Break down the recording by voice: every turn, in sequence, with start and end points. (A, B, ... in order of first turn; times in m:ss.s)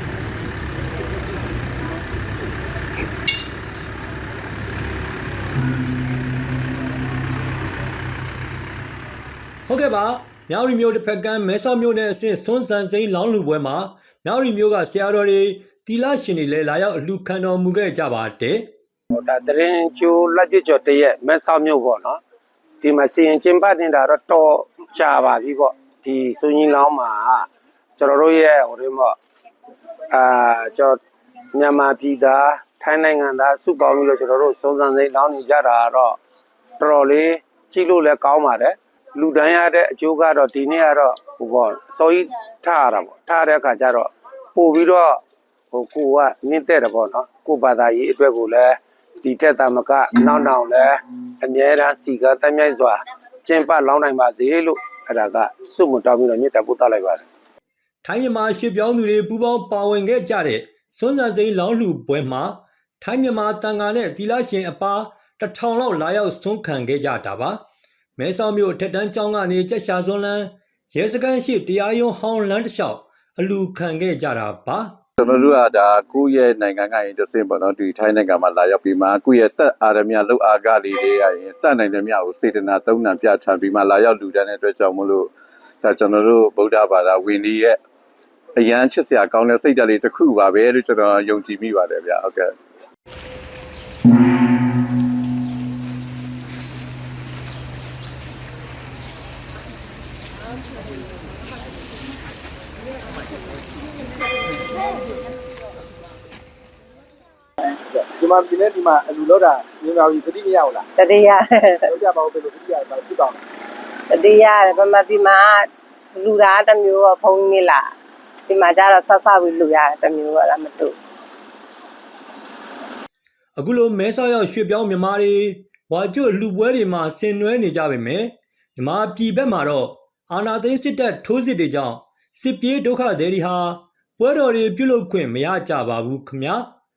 0:09.7-0:18.7 A
0:19.1-0:22.2 B
0:22.8-0:27.5 B
0:28.0-0:29.2 B
0:30.1-0:31.0 B
0:31.5-0:36.2 B
0:36.8-0:45.2 B
0:45.7-0:57.2 B
0:58.0-1:07.6 A
1:08.2-1:15.0 A
1:15.2-1:27.8 C
1:28.6-1:32.5 C
1:47.9-1:50.9 D
1:51.0-1:51.9 E
1:51.9-1:53.4 D
1:54.1-1:57.9 E
1:58.5-2:00.9 E
2:03.6-2:16.7 A